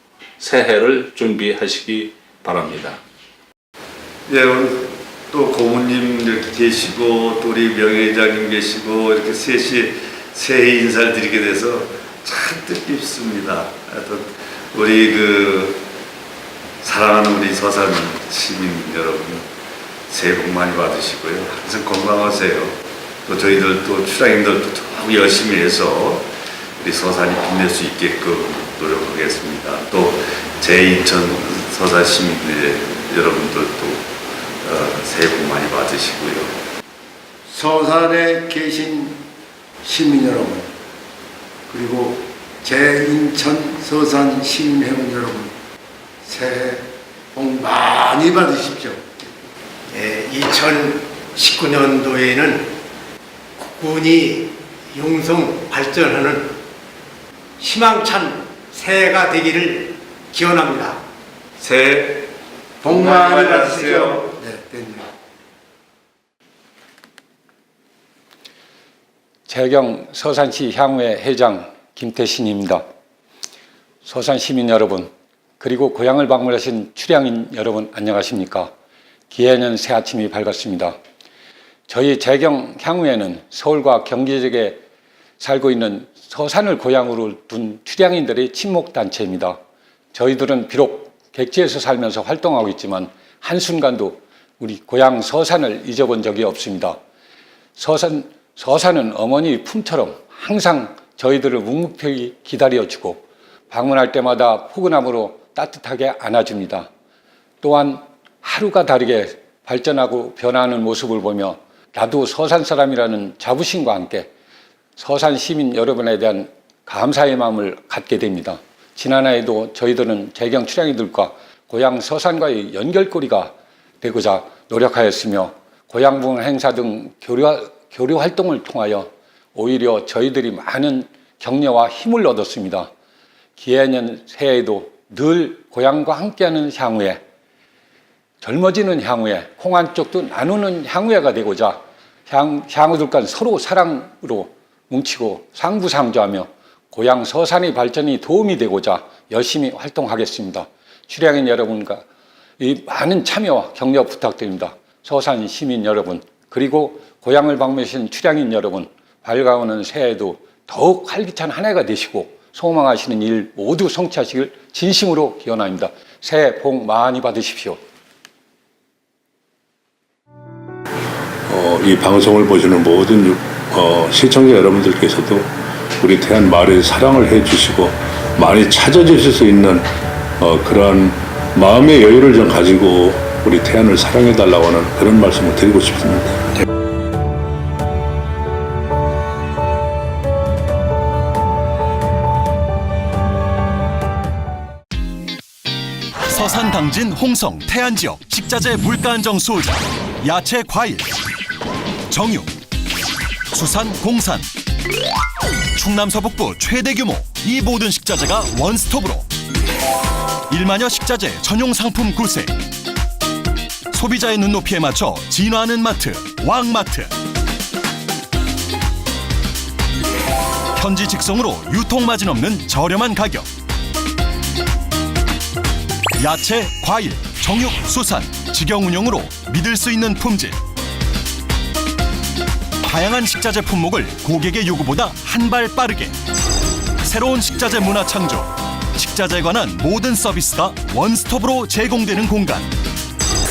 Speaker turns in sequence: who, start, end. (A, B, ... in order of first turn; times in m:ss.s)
0:00.4-0:03.0 A
0:04.3-0:15.8 B
0:16.8-0:19.5 B
0:20.1-0:36.6 B
0:37.4-0:39.2 C
0:39.8-0:40.7 C
0:41.7-0:45.5 C
0:46.2-0:49.3 C
0:49.9-0:52.7 D
0:53.8-0:56.6 D
0:57.6-1:01.0 D
1:01.6-1:02.3 B
1:02.8-1:04.3 B
1:02.8-1:04.8 C
1:02.9-1:05.0 D
1:09.5-1:12.8 E
1:14.0-1:18.7 E
1:19.3-1:21.0 E
1:21.9-1:24.8 E
1:25.4-1:29.6 E
1:30.1-1:37.0 E
1:37.8-1:46.9 E
1:47.6-1:54.3 E
1:55.0-2:12.9 E
2:13.6-2:17.2 E
2:18.4-2:32.0 E
2:32.6-2:47.8 E
2:51.5-3:06.5 F
3:16.3-3:21.1 G
3:22.1-3:22.5 G
3:23.5-3:24.5 G
3:25.7-3:29.3 G
3:30.5-3:32.5 G
3:33.9-3:37.1 G
3:40.7-3:43.5 G
3:46.2-3:50.6 G
3:52.8-3:56.2 G
3:57.0-4:02.7 G